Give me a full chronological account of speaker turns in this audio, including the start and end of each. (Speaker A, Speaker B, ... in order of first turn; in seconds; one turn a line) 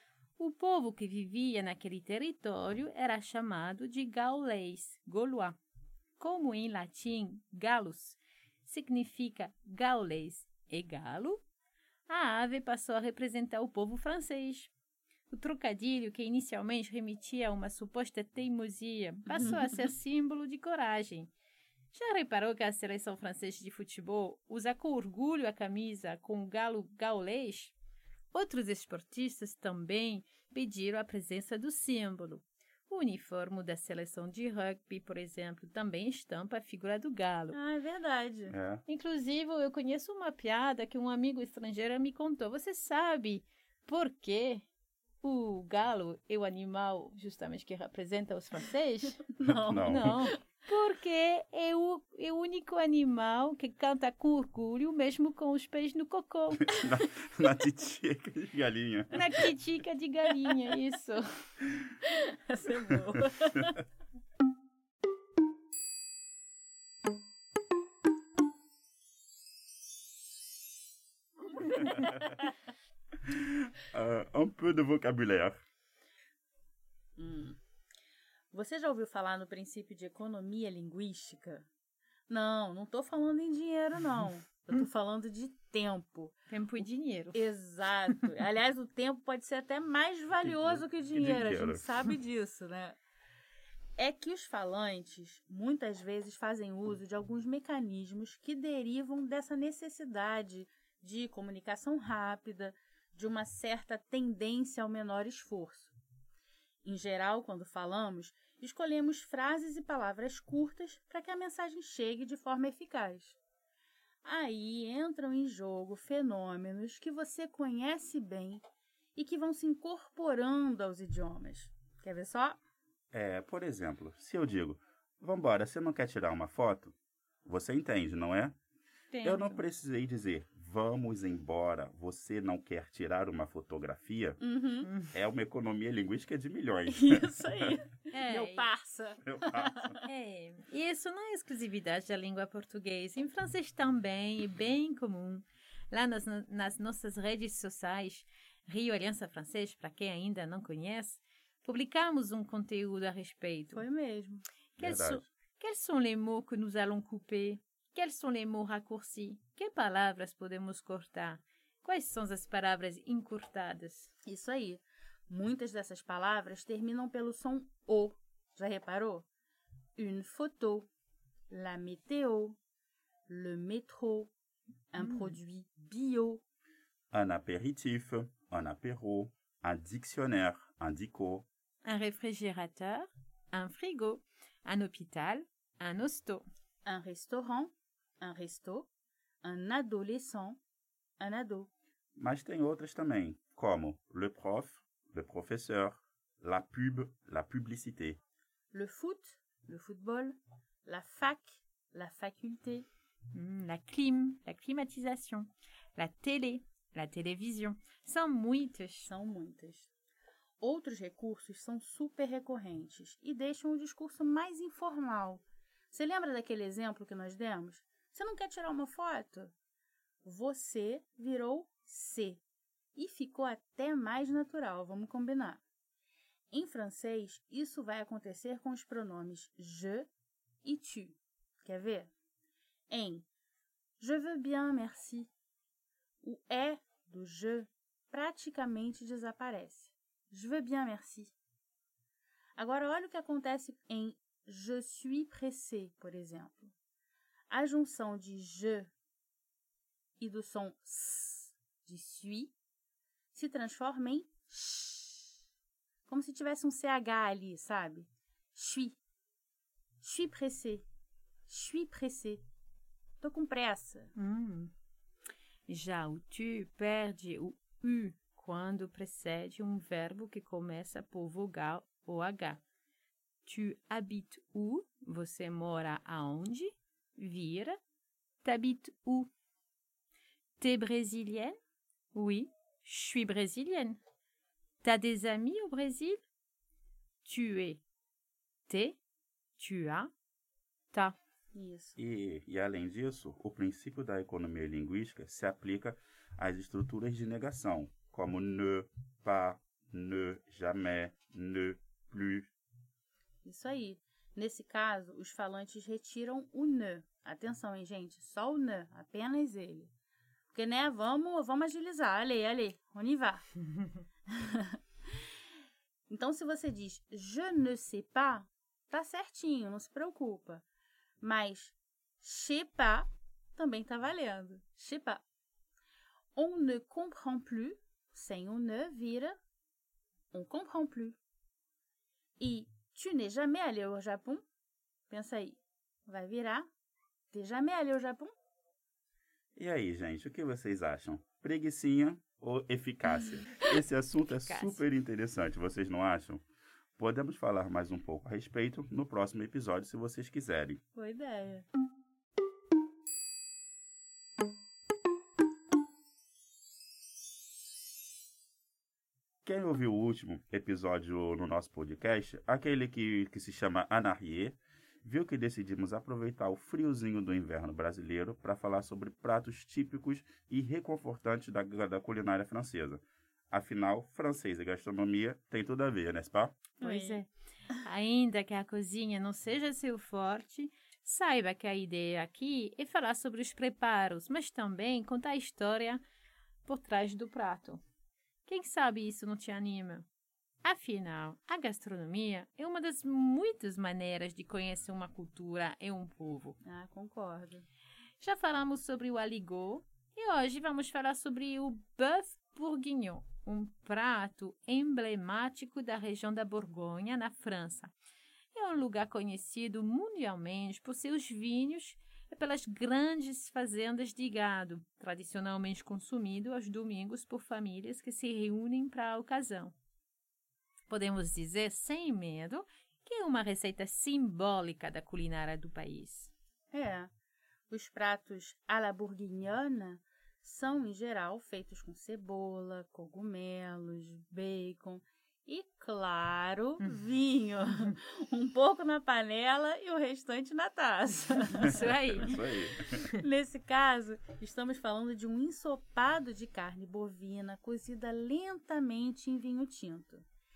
Speaker A: 0.4-5.6
Speaker A: 6.2-11.4
Speaker A: 12.1-14.7
Speaker A: 15.3-21.3
Speaker B: 19.3-19.8
Speaker A: 21.9-27.7
Speaker A: 28.3-37.6
Speaker B: 37.5-38.5
Speaker C: 38.5-38.8
Speaker A: 38.9-44.6
Speaker A: 45.2-49.2
Speaker B: 49.4-50.3
Speaker C: 49.4-50.2
Speaker A: 49.8-56.7
Speaker C: 56.6-59.3
Speaker A: 59.1-61.3
Speaker B: 62.5-63.8
Speaker B: 71.7-72.3
Speaker C: 73.3-75.6
Speaker B: 77.2-77.6
Speaker B: 78.5-81.7
Speaker B: 82.3-93.0
Speaker A: 86.5-87.5
Speaker C: 90.4-91.9
Speaker B: 94.0-105.9
Speaker B: 106.8-113.4
Speaker B: 114.2-118.6
Speaker B: 119.2-122.6
Speaker C: 123.1-128.6
Speaker A: 129.1-129.6
Speaker C: 129.2-134.4
Speaker B: 134.4-134.9
Speaker A: 134.8-135.2
Speaker C: 135.1-137.3
Speaker B: 136.9-140.1
Speaker A: 138.1-138.7
Speaker C: 139.2-139.9
Speaker A: 140.1-153.8
Speaker B: 153.7-154.4
Speaker A: 154.8-164.1
Speaker C: 154.8-155.3
Speaker B: 164.2-169.3
Speaker B: 170.0-170.9
Speaker B: 171.5-172.6
Speaker B: 173.3-174.3
Speaker B: 174.9-176.4
Speaker A: 175.0-175.4
Speaker C: 177.1-181.5
Speaker A: 181.8-186.4
Speaker B: 186.8-188.9
Speaker B: 189.4-190.6
Speaker B: 191.2-191.7
Speaker C: 192.2-198.2
Speaker B: 198.7-202.8
Speaker A: 203.3-209.1
Speaker B: 209.1-209.9
Speaker B: 210.6-219.5
Speaker B: 220.2-222.4
Speaker B: 222.9-225.6
Speaker B: 226.5-230.1
Speaker B: 230.6-232.1
Speaker B: 232.9-233.2
Speaker B: 234.0-235.3
Speaker B: 236.2-241.3
Speaker B: 242.6-246.7
Speaker B: 247.5-248.9
Speaker B: 250.2-252.5
Speaker B: 253.3-255.4
Speaker B: 256.1-259.0
Speaker B: 260.0-260.8
Speaker B: 261.5-262.4
Speaker B: 263.2-264.1
Speaker A: 264.1-264.7
Speaker A: 265.7-272.6
Speaker A: 273.4-277.8
Speaker A: 278.4-279.3
Speaker A: 280.6-281.5
Speaker A: 282.1-284.0
Speaker A: 284.8-286.2
Speaker A: 287.2-287.8
Speaker A: 288.7-289.0
Speaker A: 289.6-290.1
Speaker B: 291.5-292.0
Speaker C: 292.0-302.5
Speaker B: 303.4-309.9
Speaker B: 310.5-313.5
Speaker B: 314.3-314.8
Speaker B: 316.1-320.6
Speaker B: 321.2-325.2
Speaker B: 326.4-329.4
Speaker B: 330.3-331.1
Speaker B: 332.4-334.4
Speaker B: 335.1-336.7
Speaker B: 337.3-338.3
Speaker C: 339.6-346.4
Speaker A: 344.2-344.8
Speaker C: 347.0-350.8
Speaker B: 350.9-351.6
Speaker C: 359.4-376.6
Speaker B: 376.8-377.2
Speaker A: 376.8-377.3
Speaker A: 377.8-386.0
Speaker A: 386.6-387.8
Speaker A: 388.4-390.1
Speaker A: 390.6-396.6
Speaker B: 396.6-397.6
Speaker A: 398.2-407.9
Speaker A: 408.5-419.7
Speaker A: 420.9-426.3
Speaker B: 426.7-427.1
Speaker B: 427.7-442.4
Speaker A: 441.6-442.3
Speaker C: 441.7-443.0
Speaker B: 443.1-450.2